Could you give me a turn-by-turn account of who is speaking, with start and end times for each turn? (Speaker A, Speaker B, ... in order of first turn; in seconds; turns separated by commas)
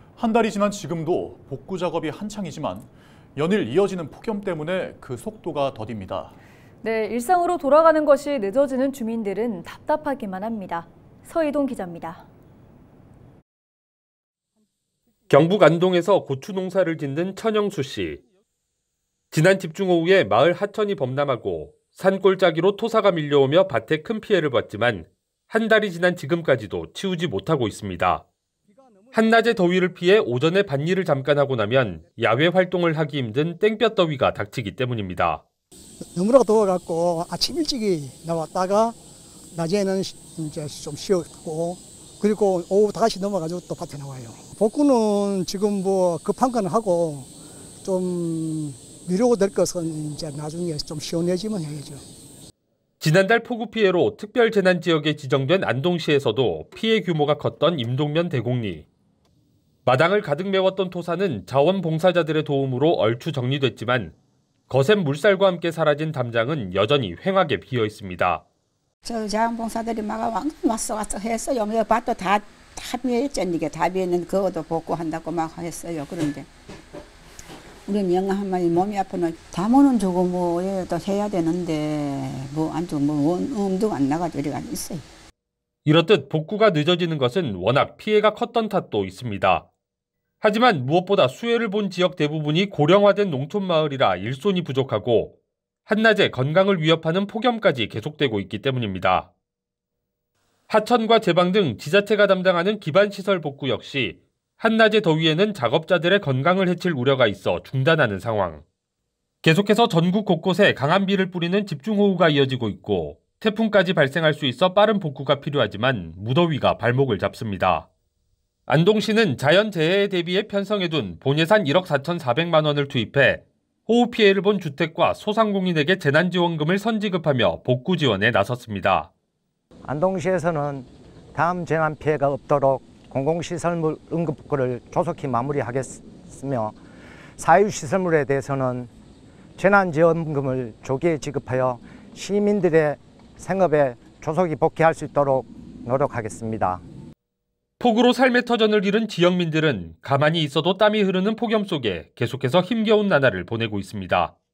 Speaker A: 0.1-6.4, Speaker B: 6.8-12.2, Speaker C: 15.3-18.2, Speaker C: 19.3-28.2, Speaker C: 29.1-35.4, Speaker D: 36.1-39.0, Speaker D: 39.5-47.3, Speaker D: 47.8-52.0, Speaker C: 53.0-58.9, Speaker C: 59.9-64.1, Speaker C: 64.7-68.4, Speaker E: 69.0-76.5, Speaker E: 77.9-85.0, Speaker C: 85.8-89.6, Speaker C: 90.4-95.3, Speaker C: 95.9-99.3, Speaker C: 100.7-108.6, Speaker C: 109.4-117.9, Speaker C: 118.7-129.1, Speaker F: 129.8-136.8, Speaker F: 137.4-138.9, Speaker F: 139.6-146.8, Speaker C: 147.8-154.3